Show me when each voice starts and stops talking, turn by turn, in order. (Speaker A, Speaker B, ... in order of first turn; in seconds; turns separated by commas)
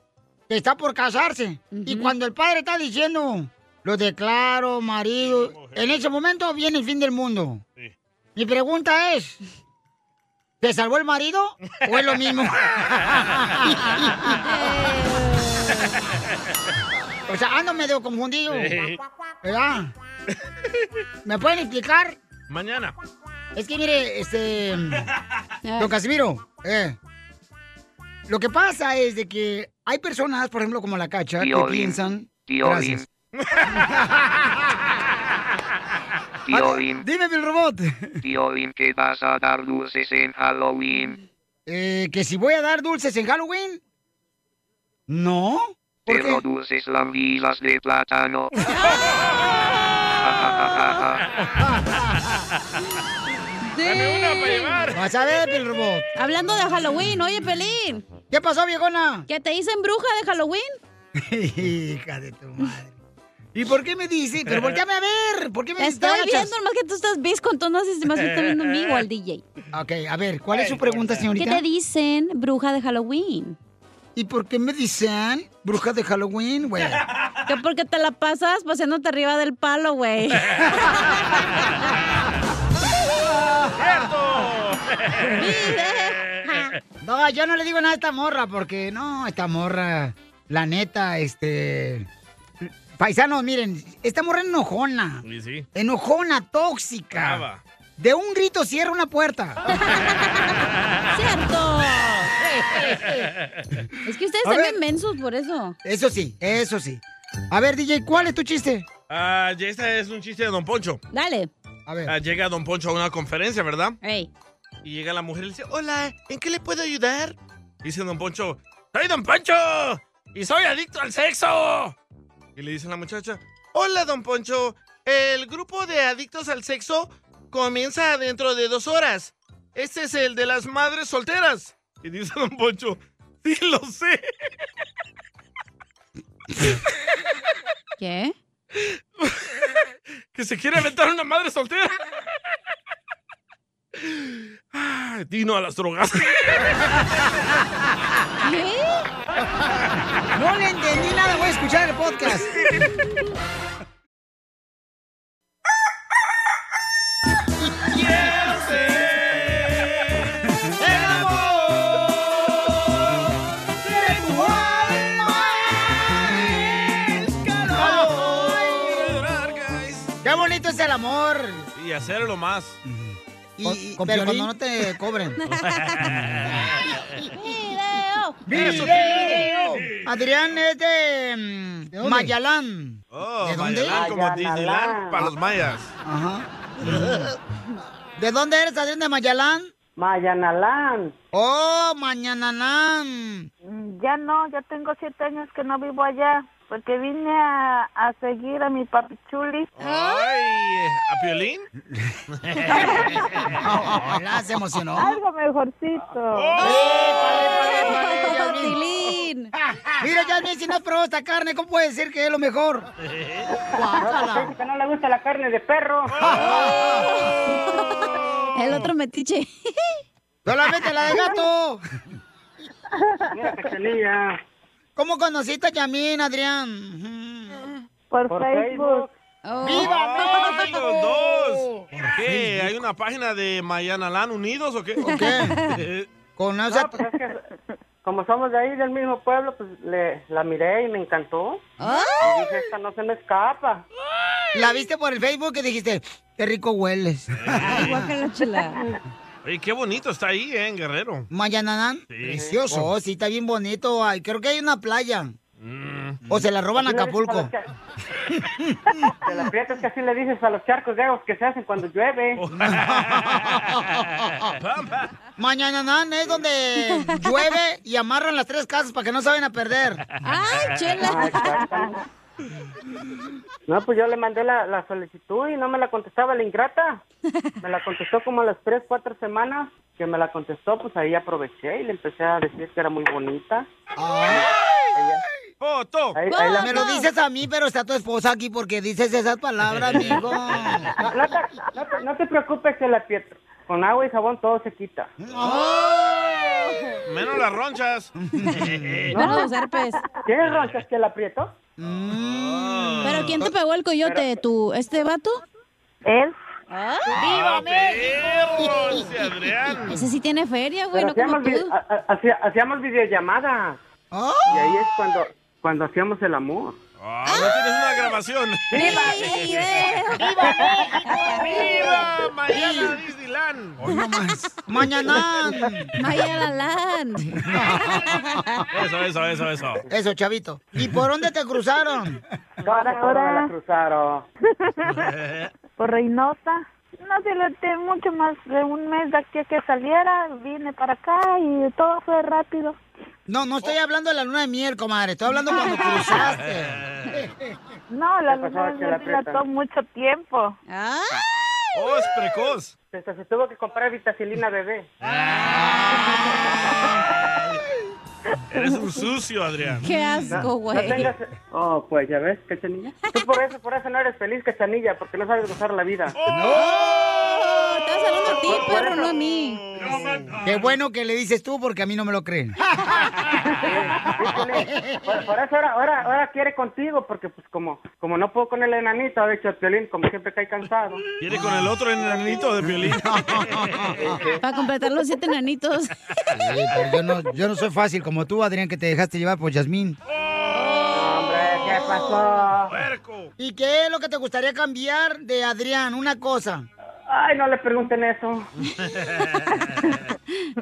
Speaker A: 0.5-7.6, Speaker B: 1.7-2.1, Speaker C: 5.2-6.0, Speaker A: 8.4-9.4, Speaker A: 10.6-14.3, Speaker B: 14.4-15.9, Speaker A: 17.3-18.8, Speaker C: 18.5-19.0, Speaker A: 19.4-19.9, Speaker A: 21.2-22.2, Speaker C: 22.5-22.9, Speaker A: 23.6-25.1, Speaker B: 25.6-25.9, Speaker A: 25.8-27.0, Speaker A: 28.3-33.0, Speaker C: 33.5-33.8, Speaker A: 36.5-38.2, Speaker D: 38.5-41.0, Speaker A: 41.7-43.8, Speaker A: 45.1-46.4, Speaker D: 46.5-48.4, Speaker B: 48.7-49.1, Speaker B: 50.5-51.0, Speaker B: 53.8-54.9, Speaker C: 53.8-55.0, Speaker A: 54.9-56.1, Speaker B: 56.1-58.0, Speaker A: 58.3-59.3, Speaker B: 59.3-60.8, Speaker A: 61.2-63.0, Speaker A: 63.5-66.5, Speaker B: 65.8-69.4, Speaker A: 69.7-71.6, Speaker B: 71.3-73.6, Speaker A: 74.2-77.0, Speaker B: 77.5-81.2, Speaker C: 83.7-85.4, Speaker B: 85.3-86.3, Speaker A: 87.0-92.1, Speaker A: 92.6-95.2, Speaker C: 95.2-95.7, Speaker A: 95.8-97.4, Speaker C: 97.1-97.6, Speaker A: 98.0-99.6, Speaker B: 99.7-100.6, Speaker B: 101.1-102.3, Speaker A: 102.8-103.0, Speaker B: 104.1-105.8, Speaker A: 104.5-104.8, Speaker A: 105.8-108.9, Speaker C: 109.1-111.0, Speaker B: 111.1-111.5, Speaker A: 111.9-112.1, Speaker C: 112.1-114.0, Speaker B: 114.0-114.3, Speaker C: 114.8-122.0, Speaker C: 122.6-134.3, Speaker B: 138.0-138.3, Speaker C: 138.8-139.4, Speaker C: 140.3-142.0, Speaker C: 144.0-147.0, Speaker B: 148.4-149.1, Speaker A: 150.3-152.5, Speaker C: 157.9-162.1, Speaker A: 160.8-161.3, Speaker C: 163.9-165.3, Speaker C: 167.1-170.2, Speaker A: 167.7-169.0, Speaker A: 170.2-171.7, Speaker C: 171.8-172.8, Speaker A: 173.6-175.4, Speaker B: 175.4-176.2, Speaker C: 175.9-176.7, Speaker B: 177.3-179.5, Speaker A: 178.5-184.0, Speaker C: 178.5-180.4, Speaker C: 183.1-185.9, Speaker E: 183.9-185.3, Speaker A: 186.0-187.2, Speaker A: 188.2-189.7, Speaker E: 190.0-191.2, Speaker A: 191.3-193.5, Speaker F: 193.7-199.7, Speaker C: 199.8-201.7, Speaker B: 199.8-200.3, Speaker C: 202.3-203.6, Speaker F: 202.9-203.3, Speaker A: 203.6-205.2, Speaker F: 205.0-206.6, Speaker C: 206.3-207.4, Speaker B: 206.6-209.5, Speaker A: 206.6-208.8, Speaker A: 210.0-212.9, Speaker C: 213.0-213.5, Speaker A: 213.8-214.5, Speaker E: 214.0-216.2, Speaker C: 216.1-216.8, Speaker A: 216.2-217.1, Speaker B: 216.3-220.0, Speaker A: 220.5-221.8, Speaker E: 223.3-224.4, Speaker A: 225.0-227.7, Speaker F: 228.1-229.1, Speaker E: 228.3-229.1, Speaker B: 229.5-230.7, Speaker A: 229.6-230.8, Speaker C: 229.7-236.1, Speaker A: 231.9-232.7, Speaker A: 235.0-235.6, Speaker B: 235.1-235.8, Speaker A: 236.4-237.0, Speaker E: 236.7-237.4, Speaker E: 238.0-243.9, Speaker B: 241.8-242.4, Speaker A: 244.5-248.0, Speaker C: 247.4-248.1, Speaker B: 247.6-248.8, Speaker C: 249.4-251.3, Speaker A: 251.3-255.3, Speaker C: 252.1-252.9, Speaker E: 252.3-252.6, Speaker C: 255.6-256.2, Speaker A: 256.3-257.5, Speaker E: 256.8-257.6, Speaker E: 259.3-262.4, Speaker C: 262.4-265.1, Speaker A: 262.7-263.8, Speaker A: 265.4-270.0, Speaker B: 270.2-271.8, Speaker E: 271.1-271.9, Speaker E: 273.7-277.0, Speaker E: 277.6-283.7, Speaker A: 284.0-284.5, Speaker E: 284.9-285.2, Speaker C: 285.6-286.2, Speaker E: 286.1-286.8, Speaker B: 286.3-287.1, Speaker A: 286.6-290.9, Speaker C: 289.8-290.7, Speaker E: 291.0-295.1, Speaker A: 295.3-295.6, Speaker B: 295.4-296.5, Speaker C: 297.0-299.3, Speaker A: 298.4-298.8, Speaker B: 299.1-300.0, Speaker E: 300.3-301.6, Speaker A: 301.8-303.0, Speaker C: 301.8-303.4, Speaker B: 303.0-305.4, Speaker E: 304.0-304.3, Speaker F: 306.1-306.4, Speaker B: 306.7-308.1, Speaker C: 307.1-310.0, Speaker B: 309.9-311.7, Speaker E: 310.9-313.8, Speaker A: 314.1-314.5, Speaker E: 314.5-316.8, Speaker C: 317.0-319.9, Speaker B: 317.3-317.7, Speaker E: 318.7-319.1, Speaker B: 318.7-321.5, Speaker A: 320.2-321.9, Speaker C: 321.5-324.0, Speaker A: 322.5-322.9, Speaker A: 323.8-325.9, Speaker B: 326.0-328.6, Speaker A: 327.3-328.4, Speaker C: 328.7-329.8, Speaker A: 329.9-332.2, Speaker E: 332.6-334.3, Speaker F: 332.7-333.5, Speaker C: 334.9-335.5, Speaker F: 335.8-342.8, Speaker A: 343.3-346.8, Speaker C: 346.4-347.2, Speaker F: 347.9-350.6, Speaker E: 348.3-349.4, Speaker B: 350.7-351.3, Speaker C: 351.7-352.8, Speaker E: 352.9-354.9, Speaker C: 355.0-355.8, Speaker B: 355.3-356.8, Speaker C: 358.5-359.9, Speaker B: 359.8-361.1, Speaker E: 360.4-366.2, Speaker C: 366.2-367.2, Speaker A: 366.3-366.6, Speaker B: 366.5-369.6, Speaker C: 368.3-370.5, Speaker E: 368.4-369.1, Speaker A: 370.4-372.6, Speaker E: 373.5-381.0, Speaker A: 374.7-375.0, Speaker C: 381.2-383.9, Speaker E: 382.0-382.5, Speaker A: 383.0-384.1, Speaker E: 384.0-384.4, Speaker B: 384.4-386.0, Speaker A: 386.4-390.0, Speaker C: 390.2-390.8, Speaker B: 390.5-391.2, Speaker E: 390.9-392.7, Speaker A: 391.7-392.2, Speaker C: 392.7-393.3, Speaker A: 393.4-396.7, Speaker E: 397.1-398.5, Speaker C: 398.8-399.9